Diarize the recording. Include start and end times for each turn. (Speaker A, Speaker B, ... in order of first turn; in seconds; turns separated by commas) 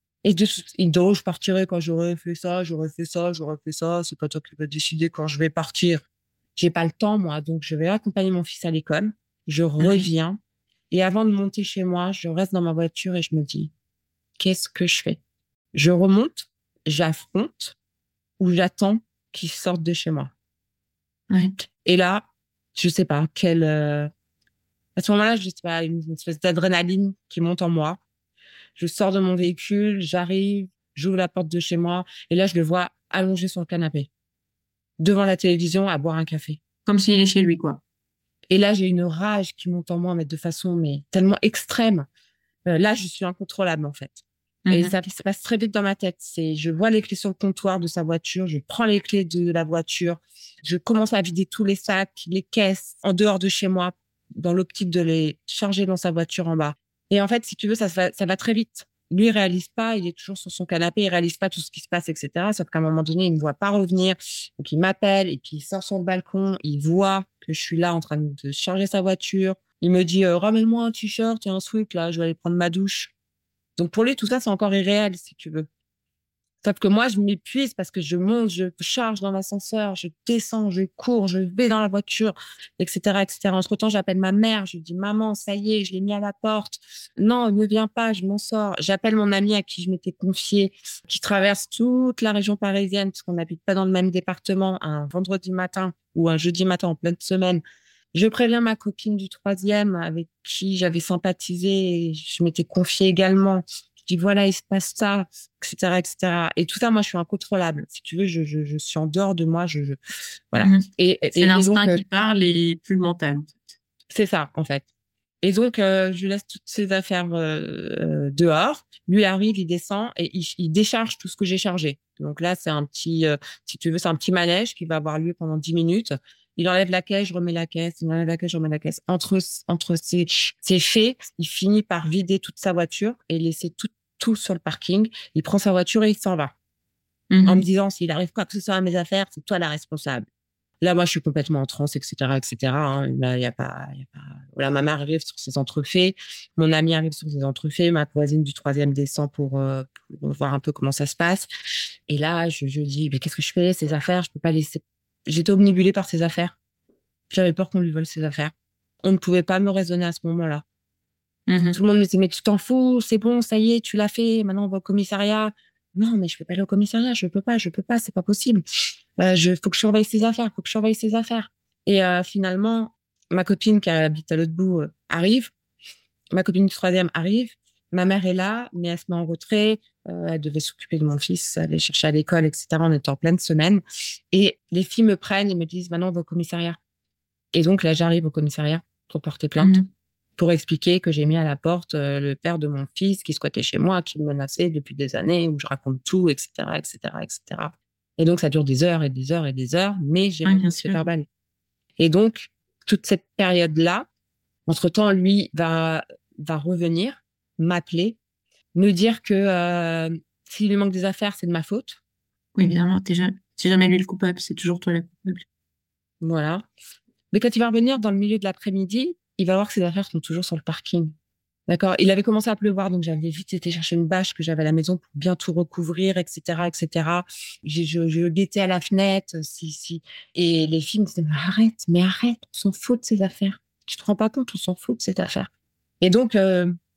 Speaker A: 0.2-10.4, Speaker B: 9.8-10.1, Speaker A: 10.9-13.7, Speaker A: 14.4-15.2, Speaker A: 15.7-17.8, Speaker A: 18.4-20.3, Speaker B: 21.3-21.7, Speaker A: 21.9-24.1, Speaker A: 25.0-28.0, Speaker A: 28.8-34.1, Speaker A: 35.0-36.6, Speaker B: 36.9-37.8, Speaker A: 38.5-42.1, Speaker A: 42.7-73.1, Speaker B: 44.7-45.0, Speaker A: 73.8-75.7, Speaker A: 76.6-97.6, Speaker A: 98.1-110.0, Speaker A: 110.5-112.0, Speaker B: 110.6-110.9, Speaker B: 111.4-113.5, Speaker A: 114.1-114.8, Speaker A: 115.4-136.5, Speaker B: 137.3-137.7, Speaker A: 137.4-140.3, Speaker A: 140.8-151.5, Speaker A: 152.1-156.6, Speaker A: 157.3-160.6, Speaker B: 161.5-161.8, Speaker A: 161.7-168.6, Speaker A: 169.2-175.5, Speaker A: 176.3-186.8, Speaker A: 187.5-189.8, Speaker B: 189.6-189.9, Speaker A: 190.4-201.3, Speaker B: 200.4-201.0, Speaker A: 202.0-204.1, Speaker A: 204.7-208.2, Speaker A: 208.8-212.0, Speaker B: 212.6-215.4, Speaker A: 216.2-216.7, Speaker A: 217.3-221.1, Speaker A: 221.7-235.5, Speaker A: 236.0-236.7